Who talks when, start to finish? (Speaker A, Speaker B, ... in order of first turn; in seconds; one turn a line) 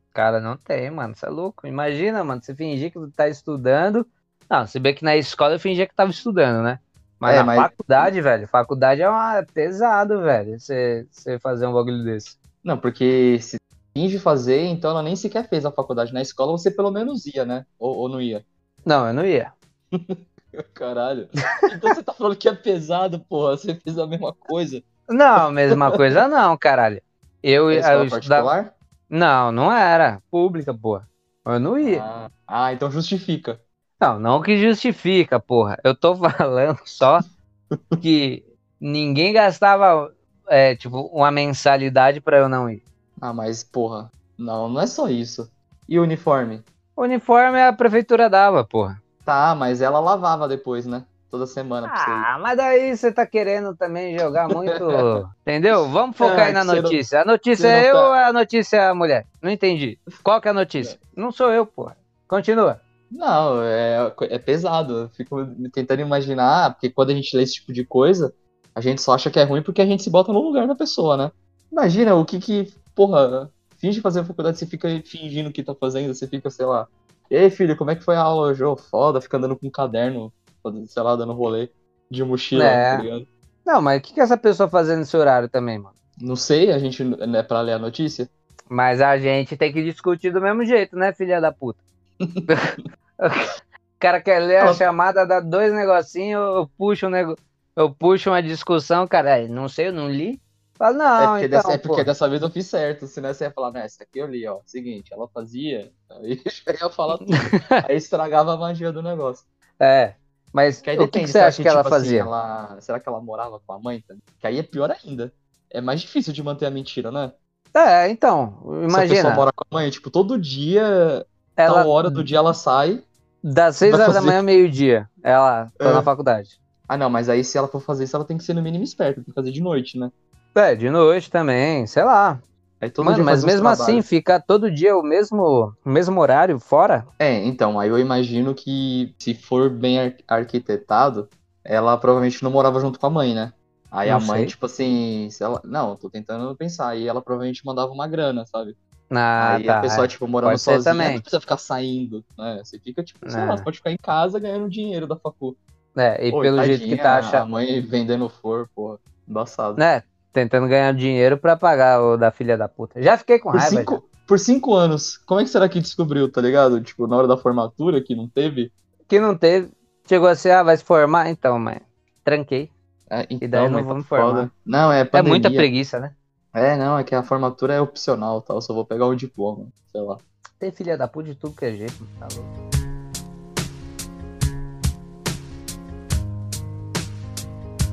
Speaker A: 0.1-12.4
Speaker B: 7.3-8.1
Speaker B: 12.6-18.4
Speaker A: 18.9-19.5
Speaker B: 19.9-24.8
Speaker A: 25.1-28.5
Speaker B: 25.7-26.0
Speaker B: 27.7-28.7
Speaker A: 29.1-32.0
Speaker B: 31.8-33.6
Speaker A: 34.0-37.2
Speaker A: 38.0-42.8
Speaker B: 43.2-46.6
Speaker A: 47.0-49.0
Speaker B: 49.3-52.3
Speaker A: 51.9-62.8
Speaker B: 54.5-55.2
Speaker B: 56.2-57.0
Speaker B: 57.6-58.1
Speaker B: 63.1-83.3
Speaker A: 82.5-83.1
Speaker A: 83.7-85.9
Speaker B: 86.2-88.3
Speaker A: 88.7-91.8
Speaker B: 92.2-92.5
Speaker A: 92.5-102.1
Speaker B: 101.2-109.5
Speaker A: 107.3-107.8
Speaker A: 109.8-112.3
Speaker B: 110.8-117.3
Speaker A: 117.7-119.5
Speaker B: 118.9-123.0
Speaker A: 121.6-122.2
Speaker A: 123.4-126.6
Speaker B: 123.9-124.4
Speaker B: 125.8-126.1
Speaker B: 126.9-130.1
Speaker A: 130.6-132.4
Speaker B: 132.8-134.1
Speaker A: 133.0-137.1
Speaker B: 137.2-148.8
Speaker A: 144.1-144.5
Speaker A: 149.1-151.2
Speaker B: 149.4-155.6
Speaker A: 153.2-153.7
Speaker A: 156.0-157.4
Speaker B: 156.3-159.8
Speaker A: 159.8-164.0
Speaker B: 163.5-168.7
Speaker A: 169.1-172.7
Speaker B: 173.1-175.7
Speaker A: 173.4-174.5
Speaker A: 175.1-176.1
Speaker B: 176.5-180.2
Speaker A: 180.6-182.5